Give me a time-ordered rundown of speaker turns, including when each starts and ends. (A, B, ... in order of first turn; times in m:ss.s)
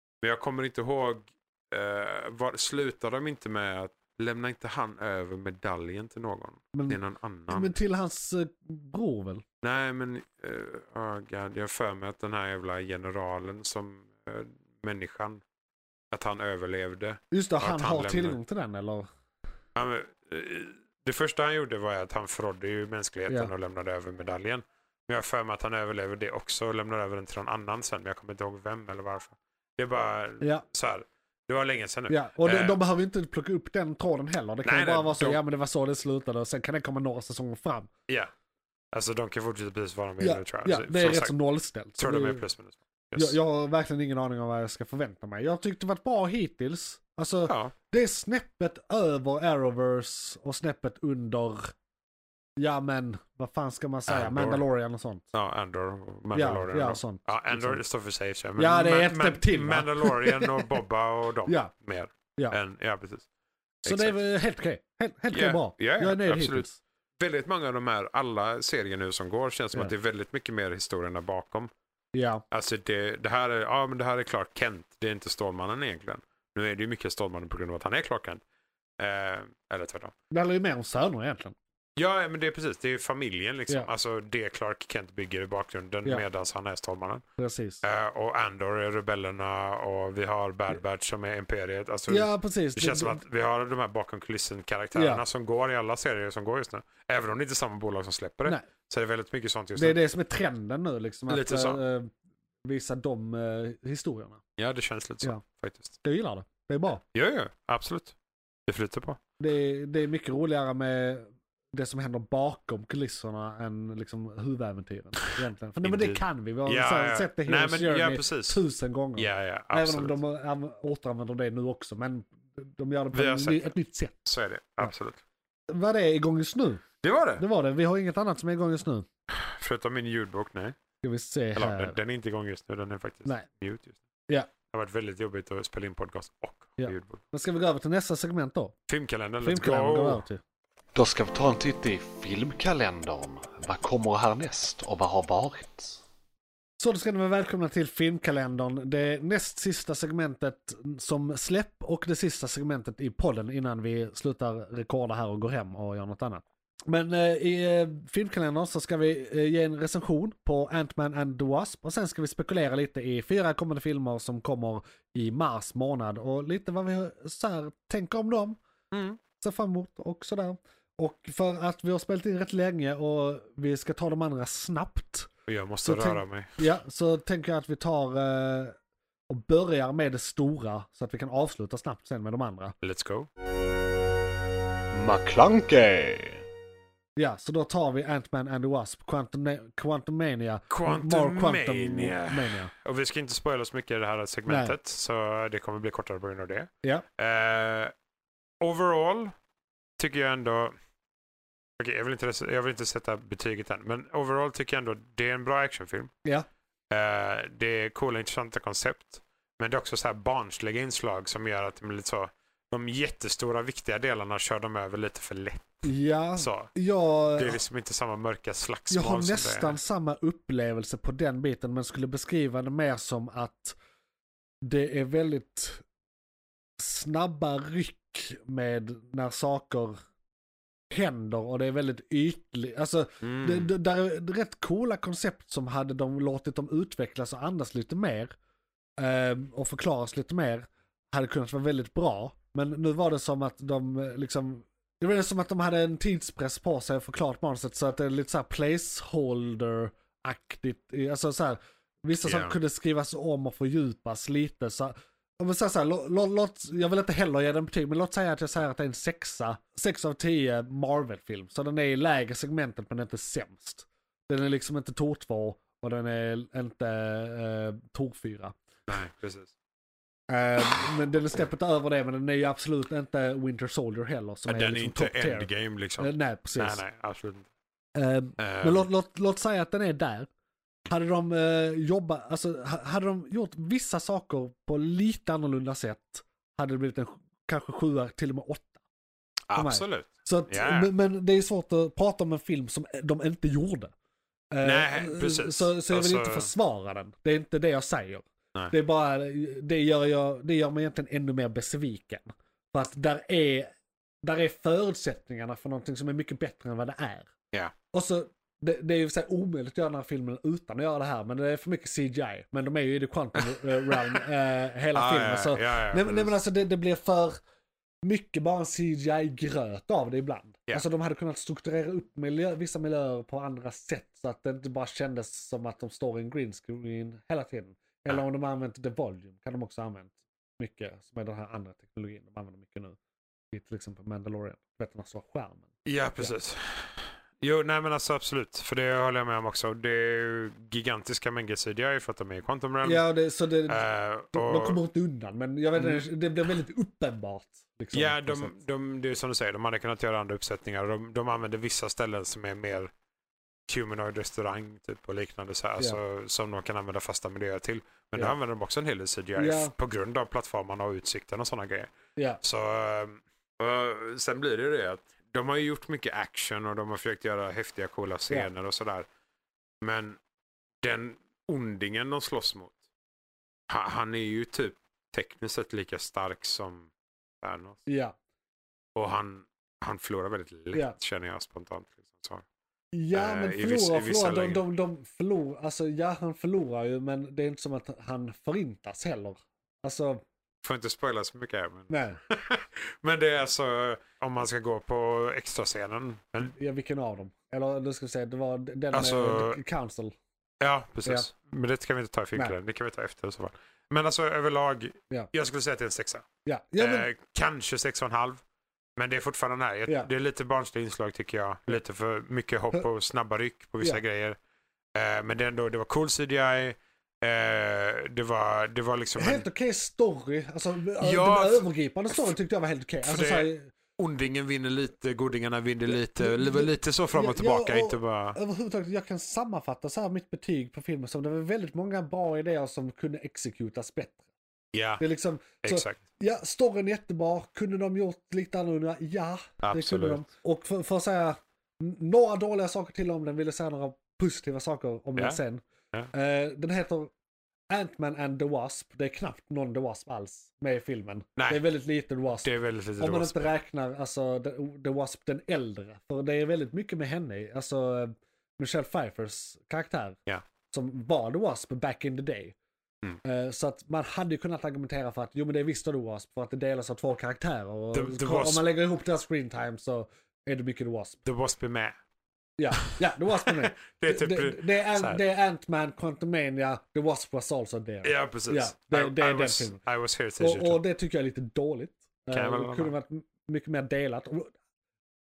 0:00.2-0:07.7 A
0:06.7-0:09.4 B
0:09.6-0:15.4 A
0:16.1-0:18.4 A
0:17.3-0:19.1 B
0:19.7-0:32.8 A
0:32.1-0:37.9 B
0:34.6-0:35.4 A
0:38.9-0:41.4 A
0:40.2-0:42.4 B
0:42.0-0:43.4 A
0:43.2-0:51.7 B
0:47.4-0:47.7 A
0:52.6-0:55.2 B
0:54.1-0:54.6 A
0:55.3-1:03.3 A
0:56.3-0:57.8 B
0:58.6-1:00.8 B
1:01.4-1:01.7 B
1:03.8-1:04.2 A
1:03.8-1:06.8 B
1:05.3-1:06.7 A
1:07.2-1:11.7 A
1:12.1-1:12.4 B
1:12.5-1:18.4 A
1:19.0-1:20.1 A
1:20.3-1:21.6 B
1:22.0-1:27.2 A
1:27.4-1:27.8 B
1:27.8-1:40.0 A
1:32.1-1:33.2 B
1:34.9-1:35.2 B
1:39.8-1:42.1 B
1:41.3-1:41.8 A
1:42.6-1:44.4 B
1:44.6-1:46.0 A
1:46.0-1:47.0 B
1:47.1-1:48.1 A
1:48.7-1:49.2 A
1:49.4-2:04.2 B
1:55.8-1:58.6 A
1:59.2-2:00.2 A
2:03.1-2:03.7 A
2:04.2-2:05.2 A
2:05.7-2:06.8 B
2:07.0-2:07.4 A
2:07.4-2:09.1 B
2:09.3-2:10.8 A
2:11.0-2:12.0 B
2:11.5-2:14.0 A
2:14.7-2:17.2 A
2:16.8-2:18.7 B
2:18.9-2:20.2 A
2:19.4-2:20.4 B
2:20.9-2:26.0 C
2:26.8-2:48.6 B
2:48.9-2:49.2 A
2:49.4-2:55.3 B
2:55.5-2:56.6 A
2:55.8-2:58.8 B
2:59.3-3:02.8 B
3:02.8-3:03.3 A
3:04.9-3:06.4 C
3:07.2-3:12.7 B
3:10.7-3:17.9 A
3:14.5-3:14.7 B
3:18.6-3:19.3 A
3:20.0-3:20.7 A
3:21.8-3:26.1 A
3:26.9-3:35.8 A
3:35.8-3:37.6 B
3:36.4-3:36.7 A
3:37.4-3:39.8 A
3:38.9-3:43.8 B
3:44.6-3:45.8 B
3:46.8-3:50.0 B
3:50.9-3:58.3 B
3:53.2-3:53.7 A
3:59.0-4:28.6 B
4:12.2-4:12.6 A
4:28.9-4:29.5 A
4:30.3-4:36.8 B
4:34.5-4:37.5 A
4:37.9-4:40.3 B
4:38.4-4:38.9 A
4:40.9-4:48.7 B
4:49.5-4:50.9 A
4:49.5-4:53.9 B
4:54.5-5:03.7 B
4:54.6-4:56.5 A
5:04.2-5:07.3 B
5:07.9-5:17.4 B
5:13.4-5:14.2 A
5:14.9-5:16.4 A
5:18.0-5:33.0 B
5:33.5-5:36.3 B
5:35.8-5:43.0 A
5:42.8-5:48.5 B
5:43.7-5:44.8 A
5:45.7-5:46.0 A
5:47.9-5:52.9 A
5:53.7-6:09.1 A
5:59.4-5:59.7 B
6:09.8-6:10.2 A
6:10.8-6:12.8 A
6:13.7-6:16.9 A
6:17.4-6:17.8 A
6:17.8-6:18.1 B
6:18.9-6:22.4 A
6:22.9-6:30.2 B
6:23.1-6:24.6 A
6:30.6-6:36.5 A
6:31.9-6:32.2 B
6:36.4-6:40.1 B
6:38.9-6:39.6 A
6:40.6-6:46.3 A
6:46.4-6:47.1 B
6:46.8-6:48.4 A
6:49.0-6:54.4 A
6:54.9-6:59.4 A
6:59.2-7:03.7 B
7:01.0-7:02.3 A
7:03.0-7:08.4 A
7:05.9-7:14.3 B
7:14.7-7:15.0 A
7:15.0-7:27.1 B
7:15.6-7:16.0 A
7:19.6-7:20.2 A
7:27.7-7:32.5 B
7:31.4-7:31.6 A
7:32.4-7:33.5 A
7:33.0-7:40.2 B
7:40.7-7:42.6 B
7:43.2-7:51.2 B
7:47.9-7:48.7 A
7:51.2-7:52.0 A
7:52.6-7:59.8 B
7:53.3-7:55.2 A
7:58.0-8:00.8 A
8:00.4-8:04.5 B
8:02.3-8:02.9 A